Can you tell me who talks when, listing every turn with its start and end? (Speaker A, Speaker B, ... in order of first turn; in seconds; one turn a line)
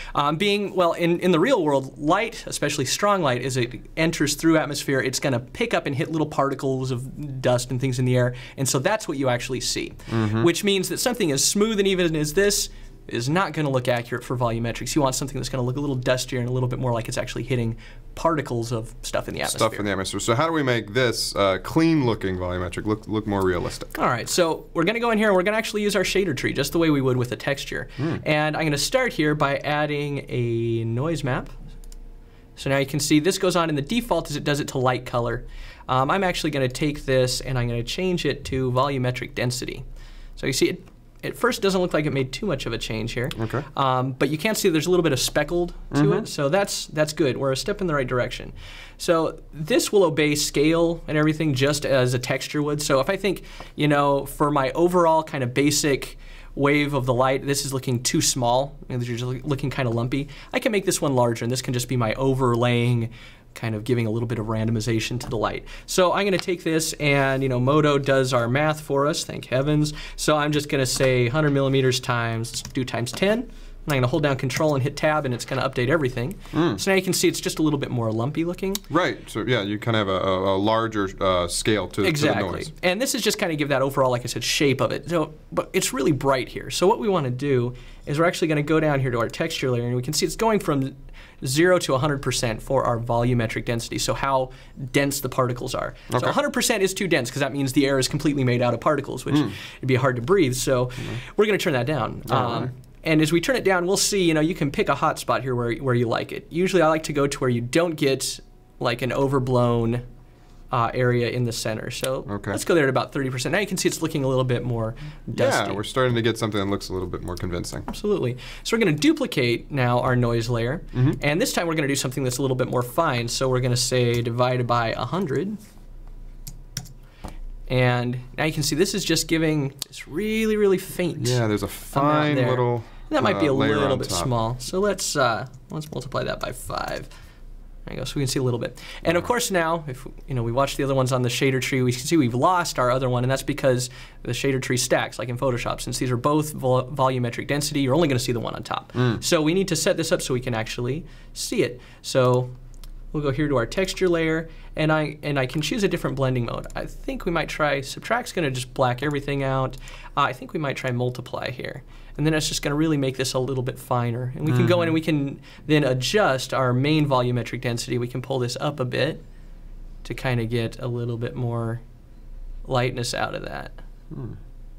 Speaker A: 0.1-19.9
Speaker B: 10.1-10.5
Speaker B: 19.5-23.9
Speaker A: 23.9-31.6
Speaker A: 32.6-39.9
Speaker A: 40.4-78.8
Speaker B: 43.4-43.7
Speaker B: 45.9-46.3
Speaker B: 76.5-76.8
Speaker B: 78.9-82.7
Speaker A: 82.0-110.0
Speaker B: 96.1-96.4
Speaker B: 99.3-99.6
Speaker B: 102.3-102.7
Speaker A: 110.7-115.8
Speaker B: 112.3-112.6
Speaker B: 115.3-117.9
Speaker A: 117.9-125.6
Speaker A: 127.7-137.1
Speaker B: 131.2-134.3
Speaker A: 137.9-152.5
Speaker B: 149.0-149.2
Speaker A: 153.1-169.2
Speaker B: 164.5-164.9
Speaker A: 170.0-171.8
Speaker A: 172.7-173.8
Speaker B: 174.1-174.4